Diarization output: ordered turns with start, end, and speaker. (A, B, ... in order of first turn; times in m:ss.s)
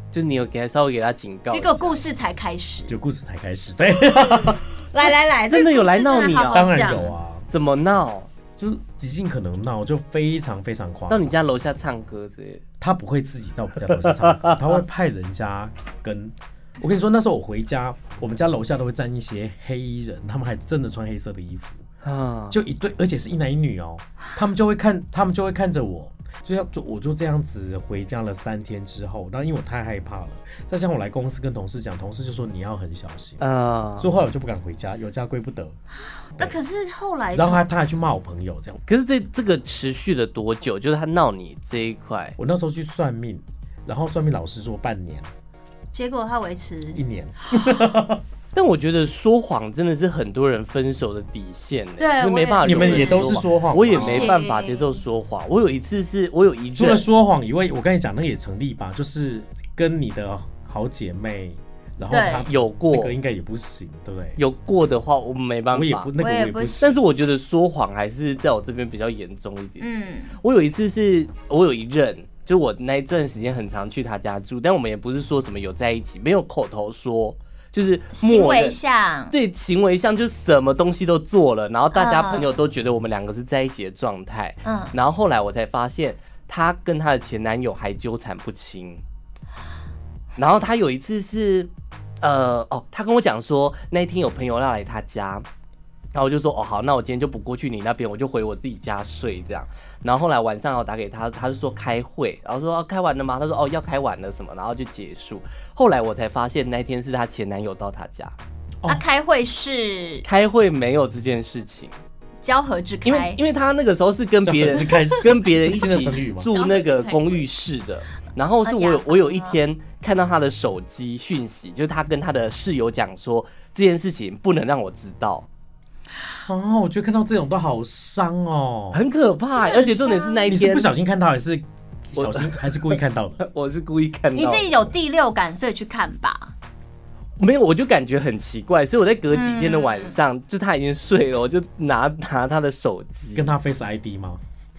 0:00.1-0:02.0 A
0:01.5-0:03.0 B
0:02.9-0:04.6 C
0:04.9-0:07.2 B
0:05.0-0:06.7 A
0:06.5-0:07.5 C
0:07.5-0:08.3 A
0:08.6-0:11.4 C
0:11.1-0:12.6 A
0:12.8-0:21.8 C
0:14.2-0:14.8 A
0:22.0-0:22.6 A
0:22.5-0:33.4 C
0:33.4-0:34.2 A
0:34.0-0:35.8 C
0:36.2-0:37.6 B
0:37.3-0:38.8 C
0:38.9-0:42.4 A
0:42.4-0:45.3 C
0:45.9-0:47.8 B
0:46.9-0:48.2 C
0:48.5-0:57.1 A
0:52.0-0:55.0 B
0:52.6-0:54.3 C
0:56.8-1:04.4 C
1:02.1-1:02.5 B
1:02.5-1:03.2 A
1:04.4-1:06.1 A
1:05.7-1:06.9 C
1:06.2-1:07.0 B
1:06.8-1:09.8 A
1:09.8-1:10.4 B
1:10.4-1:18.8 A
1:18.2-1:19.4 B
1:19.3-1:29.0 A
1:21.9-1:22.5 B
1:24.6-1:24.9 B
1:30.4-1:31.7 A
1:32.2-1:35.4 A
1:36.1-1:48.4 A
1:48.9-1:50.3 B
1:50.2-1:52.0 A
1:52.4-1:53.4 B
1:53.0-2:05.5 A
1:54.4-1:56.5 C
1:56.5-1:57.4 B
1:58.6-1:59.6 B
2:06.5-2:09.0 C
2:08.9-2:10.9 A
2:09.6-2:10.6 B
2:10.5-2:13.4 C
2:12.1-2:14.8 A
2:14.3-2:16.5 B
2:17.4-2:23.5 A
2:19.3-2:20.2 B
2:23.3-2:24.4 C